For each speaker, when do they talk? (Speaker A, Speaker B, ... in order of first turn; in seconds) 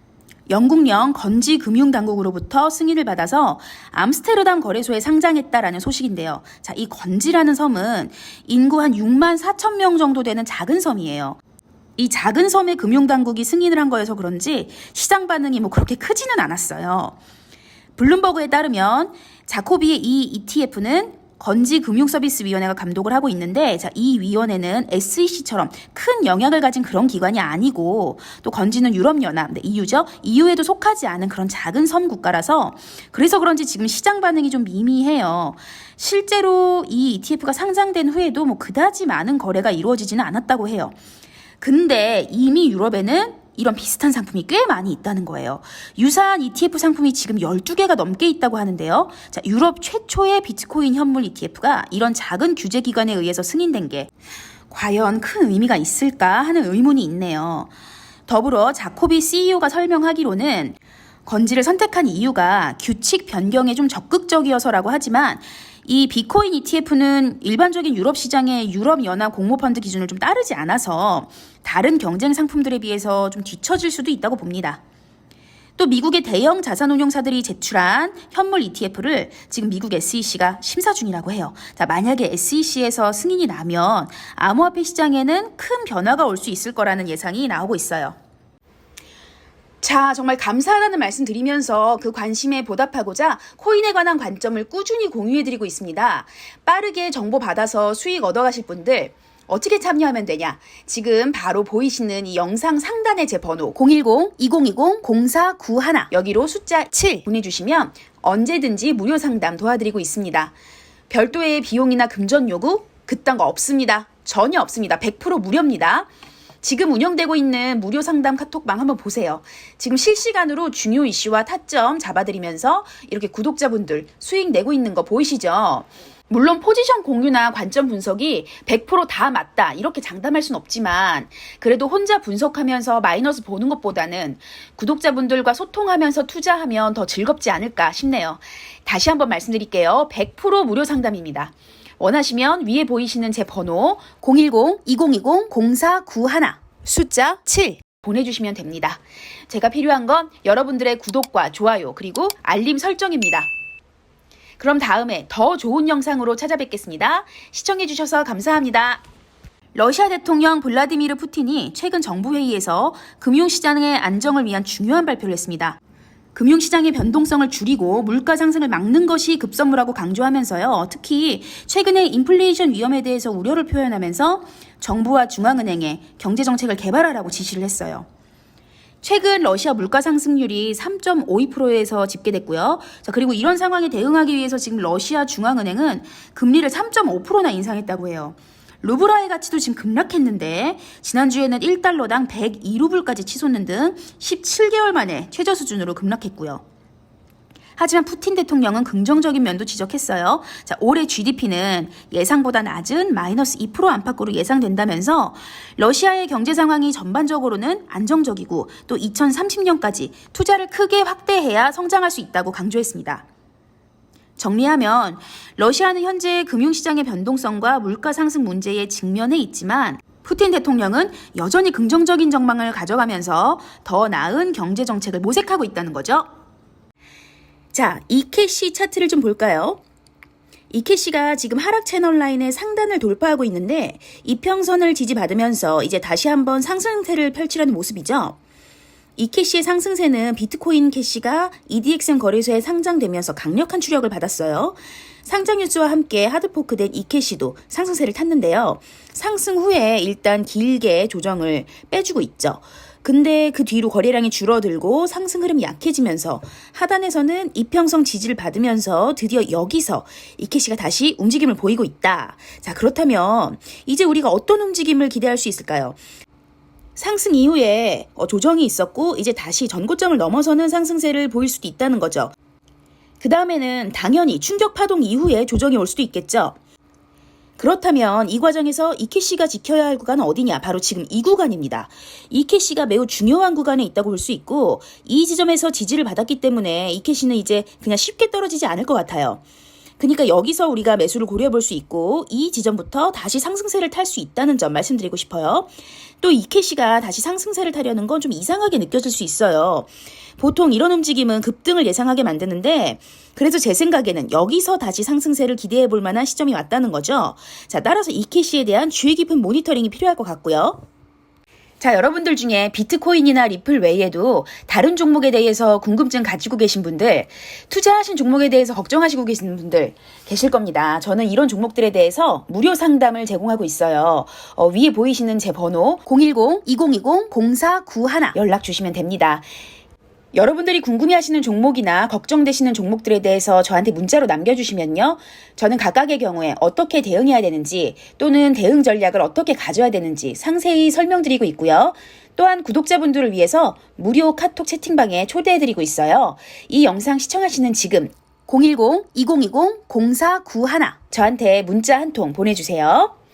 Speaker A: 0.5-11.4, 12.0-17.2, 18.0-41.0, 41.6-54.1, 54.7-57.7, 58.3-74.8, 75.8-88.2, 89.8-110.5, 111.1-116.1, 116.6-153.5, 154.6-159.0, 159.8-165.8, 166.3-178.1, 179.0-196.6, 197.8-213.2, 214.4-226.3, 227.7-229.8, 230.7-238.4, 239.2-266.0, 267.0-272.3, 273.2-276.6, 277.6-289.4, 290.0-310.8, 311.8-329.5, 330.3-353.1